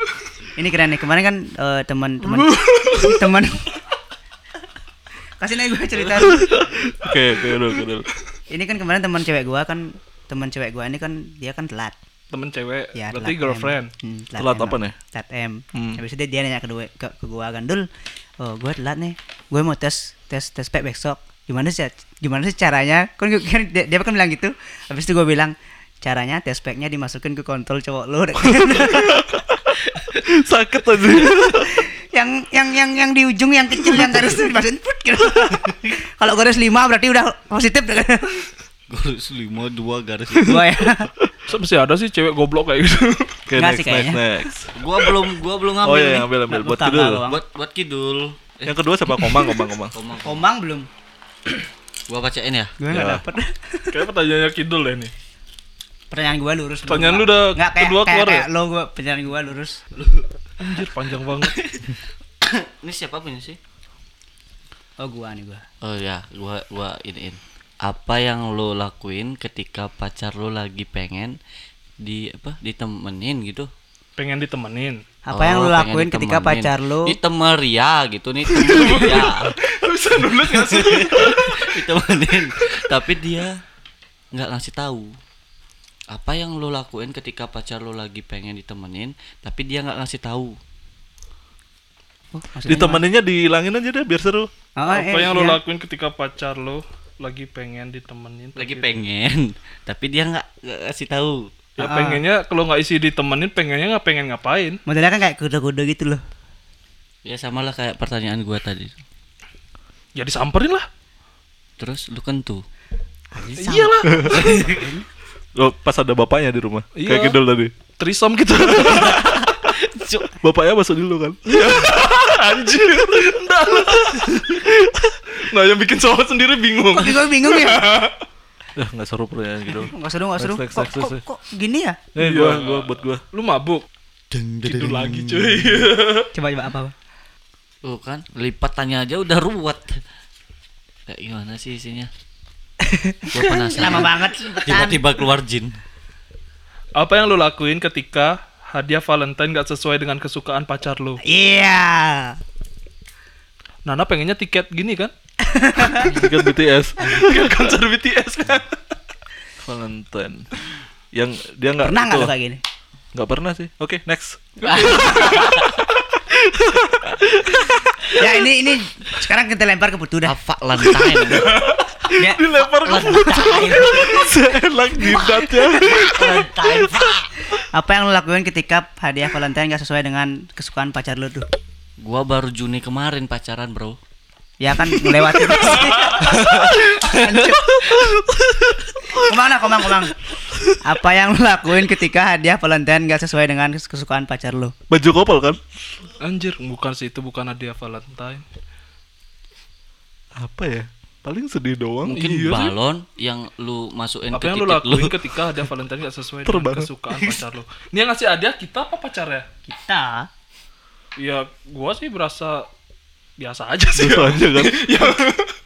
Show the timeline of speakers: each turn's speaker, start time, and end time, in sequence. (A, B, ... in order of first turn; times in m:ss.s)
0:00.6-0:03.7 A
0:02.2-0:03.3 B
0:05.4-0:06.6 A
0:06.1-0:08.1 C
0:08.5-0:11.9 A
0:12.3-0:13.9 B
0:12.9-0:17.9 A
0:14.4-0:14.9 C
0:15.7-0:16.0 C
0:18.4-0:29.4 A
0:28.4-0:31.8 C
0:31.2-0:38.5 A
0:38.9-0:40.6 D
0:40.4-0:41.1 A
0:41.5-0:43.4 B
0:43.5-0:44.7 C
0:43.6-0:44.2 A
0:44.7-0:46.3 D
0:45.8-0:47.2 C
0:46.5-0:47.4 A
0:47.2-0:50.4 D
0:48.6-0:49.9 C
0:50.2-0:50.9 A
0:52.1-0:52.8 D
0:52.8-0:54.0 A
0:52.9-0:53.2 C
0:53.9-0:55.1 B
0:56.1-0:59.8 A
0:56.8-0:58.5 B
1:00.0-1:00.2 D
1:00.6-1:01.6 B
1:01.4-1:03.6 D
1:05.0-1:05.6 A
1:05.8-1:11.4 D
1:12.0-1:13.7 D
1:14.2-1:15.0 B
1:15.2-1:17.2 A
1:15.3-1:19.5 D
1:18.5-1:21.7 B
1:20.4-1:23.6 D
1:24.3-1:25.1 D
1:26.1-1:30.6 D
1:32.3-1:33.0 A
1:32.6-1:34.5 C
1:34.8-1:35.6 A
1:34.9-1:38.9 B
1:38.6-1:41.5 D
1:41.8-1:44.8 B
1:41.8-1:42.2 A
1:44.8-1:46.2 A
1:47.2-1:49.0 D
1:50.2-1:50.8 B
1:51.8-1:52.6 D
1:53.3-1:55.0 A
1:53.6-1:54.6 B
1:54.1-1:54.4 C
1:54.3-1:54.9 D
1:55.6-1:57.7 C
1:57.0-1:57.4 B
1:58.0-1:59.4 B
1:58.8-1:59.2 C
1:58.8-2:00.3 D
2:00.4-2:01.7 C
2:01.4-2:04.6 B
2:04.7-2:05.2 C
2:05.4-2:08.2 B
2:06.9-2:07.8 A
2:08.8-2:11.2 C
2:09.8-2:12.0 A
2:12.1-2:13.2 C
2:12.2-2:13.8 B
2:14.3-2:15.9 D
2:14.6-2:16.3 B
2:16.3-2:16.9 A
2:17.8-2:20.0 D
2:21.1-2:22.1 D
2:22.8-2:25.2 A
2:23.3-2:25.8 D
2:27.0-2:31.2 B
2:31.2-2:32.4 A
2:33.8-2:35.1 B
2:35.4-2:36.2 A
2:36.0-2:37.6 C
2:37.0-2:38.8 B
2:39.6-2:40.5 C
2:41.1-2:42.3 C
2:41.8-2:42.6 A
2:43.1-2:45.4 C
2:44.7-2:45.6 D
2:44.7-2:45.6 B
2:44.8-2:45.4 A
2:46.2-2:47.9 C
2:48.1-2:50.3 A
2:50.2-2:51.6 D
2:50.9-2:56.4 C
2:51.3-2:51.8 B
2:52.2-2:54.3 A
2:52.8-2:54.2 D
2:55.0-2:56.1 A
2:56.0-2:57.3 D
2:57.6-3:01.5 A
3:02.0-3:04.0 D
3:04.6-3:07.8 A
3:06.0-3:07.5 D
3:07.8-3:09.2 C
3:09.1-3:10.2 A
3:10.5-3:10.8 C
3:10.8-3:14.7 A
3:14.9-3:15.6 C
3:16.2-3:18.4 B
3:20.4-3:22.2 C
3:22.0-3:25.1 D
3:22.1-3:22.7 B
3:24.3-3:29.4 B
3:26.4-3:26.9 C
3:29.7-3:30.3 A
3:31.2-3:32.6 B
3:33.4-3:35.5 B
3:34.0-3:35.0 C